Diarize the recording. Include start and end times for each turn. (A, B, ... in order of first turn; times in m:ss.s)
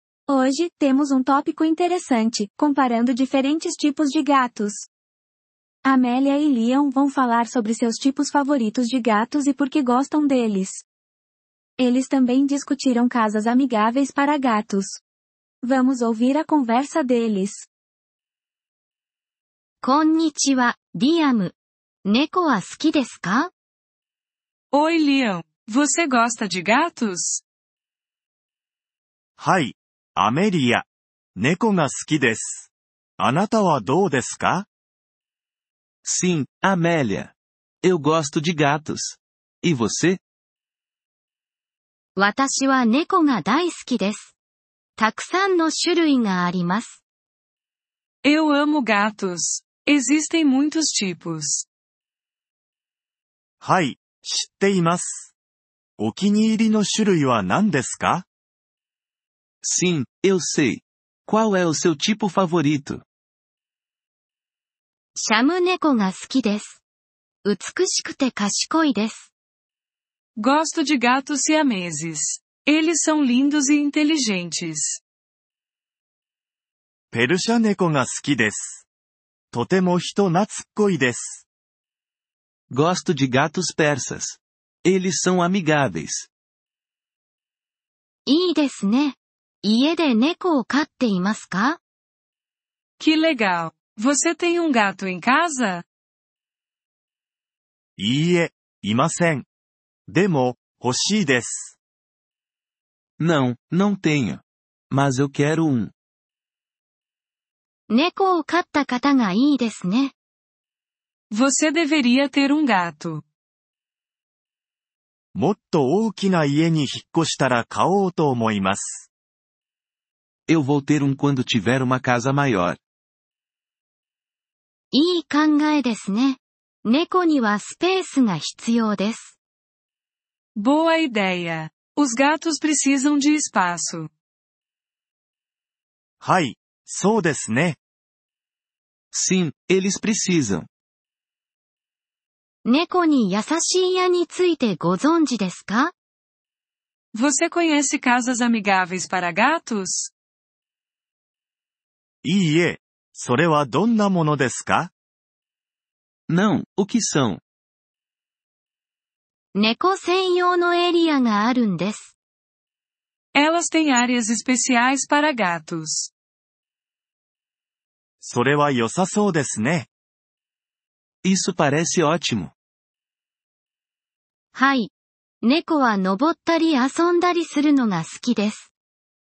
0:00.3-0:04.9 A
0:05.8-0:10.8 A
0:11.8-0:15.0 A
0:15.6-0:17.7 A
0:19.8-0:23.5 B
0:24.7-0:27.4 C
0:29.4-0:34.7 D
0:36.0-0:40.2 E
0:42.2-0:44.4 B
0:45.0-0:47.0 B
0:48.2-0:51.6 C
0:53.6-0:55.3 D
0:56.0-0:58.3 D
0:59.6-1:03.0 E
1:05.2-1:06.8 B
1:07.4-1:09.3 B
1:10.4-1:15.0 C
1:17.1-1:18.8 D
1:19.5-1:21.4 D
1:22.7-1:26.3 E
1:28.3-1:31.8 B
1:33.0-1:35.8 C
1:38.0-1:39.5 D
1:40.1-1:41.8 D
1:43.2-1:45.9 E
1:47.9-1:50.1 B
1:51.3-1:53.2 C
1:55.3-1:59.1 D
2:00.5-2:02.8 E
2:04.9-2:09.4 B
2:10.6-2:14.1 C
2:16.2-2:17.8 D
2:19.1-2:20.7 E
2:22.6-2:25.9 B
2:27.1-2:30.1 C
2:32.2-2:34.9 D
2:36.3-2:37.4 E
2:39.5-2:42.1 B
2:43.3-2:46.1 C
2:48.2-2:49.9 D
2:51.2-2:52.5 E
2:54.5-2:54.9 B
2:55.4-2:58.7 B